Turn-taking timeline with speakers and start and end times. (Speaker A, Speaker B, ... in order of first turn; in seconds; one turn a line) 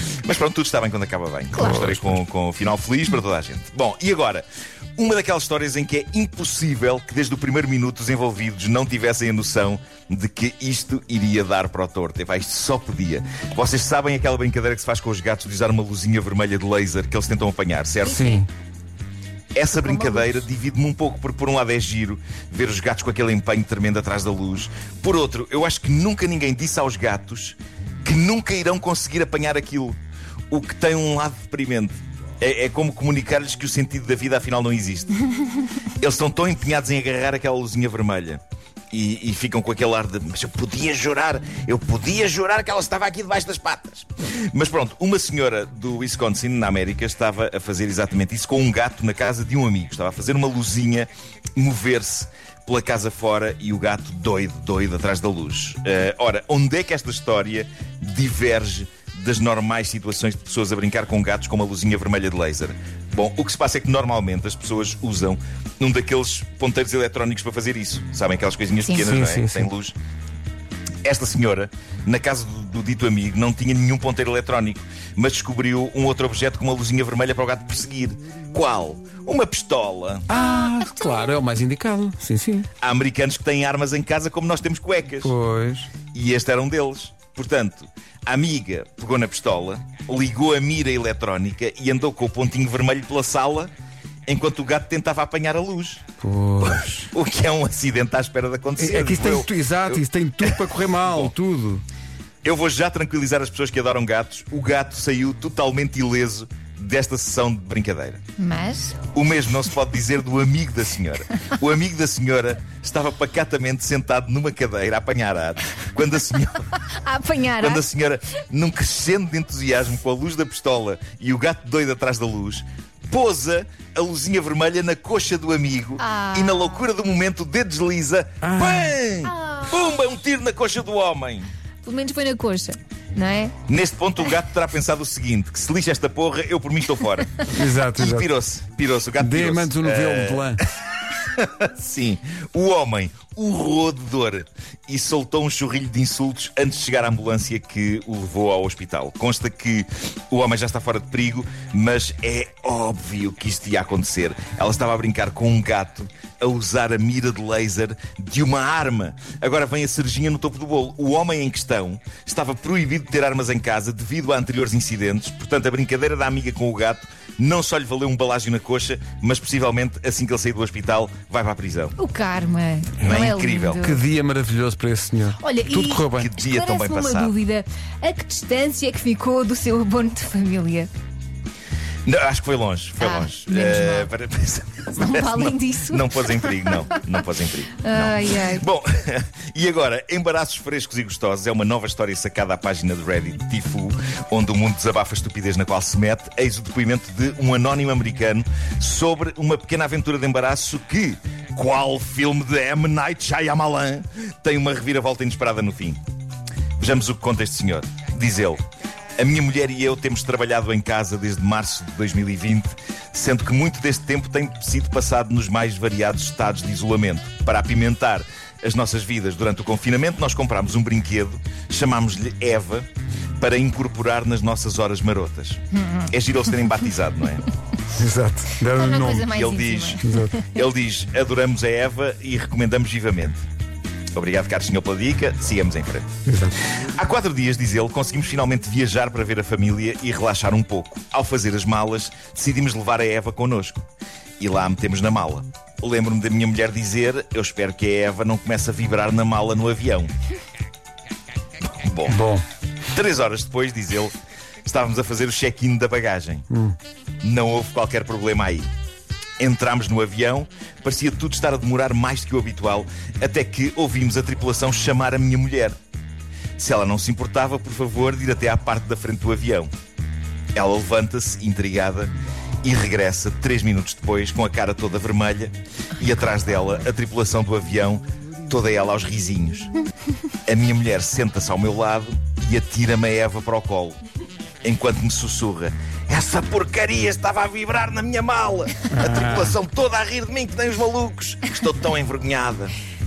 Speaker A: 0.2-4.5
Speaker B: 1.5-2.2
Speaker C: 1.5-1.8
Speaker A: 5.0-18.4
Speaker B: 18.0-18.5
Speaker A: 19.5-30.0
Speaker C: 19.8-20.4
Speaker A: 30.5-35.1
Speaker A: 36.0-38.4
Speaker A: 38.9-70.0
Speaker B: 68.9-69.7
Speaker A: 71.0-80.3
Speaker B: 80.3-82.7
Speaker A: 82.8-85.3
Speaker B: 85.2-85.9
Speaker A: 86.1-93.7
Speaker A: 94.2-96.0
Speaker B: 96.2-97.1
Speaker A: 96.6-101.3
Speaker B: 98.8-101.8
Speaker A: 102.4-108.2
Speaker C: 108.4-109.0
Speaker A: 109.1-116.7
Speaker C: 117.0-117.8
Speaker A: 117.6-131.5
Speaker C: 126.0-126.8
Speaker B: 128.4-128.9
Speaker C: 129.2-129.9
Speaker C: 131.8-133.6
Speaker A: 133.7-140.6
Speaker B: 137.5-138.3
Speaker B: 139.2-140.6
Speaker A: 141.3-172.0
Speaker C: 172.0-174.0
Speaker A: 173.0-173.8
Speaker B: 173.8-176.3
Speaker C: 175.4-180.9
Speaker A: 176.0-177.3
Speaker A: 182.1-206.0
Speaker C: 183.0-184.1
Speaker C: 185.0-187.0
Speaker C: 187.8-188.6
Speaker A: 206.8-208.6
Speaker A: 209.2-222.9
Speaker A: 223.4-227.4
Speaker B: 227.9-229.3
Speaker C: 228.7-230.6
Speaker A: 229.2-233.4
Speaker B: 230.0-230.3
Speaker A: 234.1-236.1
Speaker B: 236.3-236.6
Speaker A: 236.9-243.8
Speaker A: 244.4-250.1
Speaker A: 251.6-252.2
Speaker B: 252.1-252.4
Speaker A: 252.9-256.4
Speaker B: 256.5-256.8
Speaker A: 257.2-258.7
Speaker A: 259.4-265.8
Speaker A: 266.6-269.7
Speaker A: 270.5-279.7
Speaker A: 280.5-284.0
Speaker A: 284.6-292.7
Speaker B: 288.9-289.5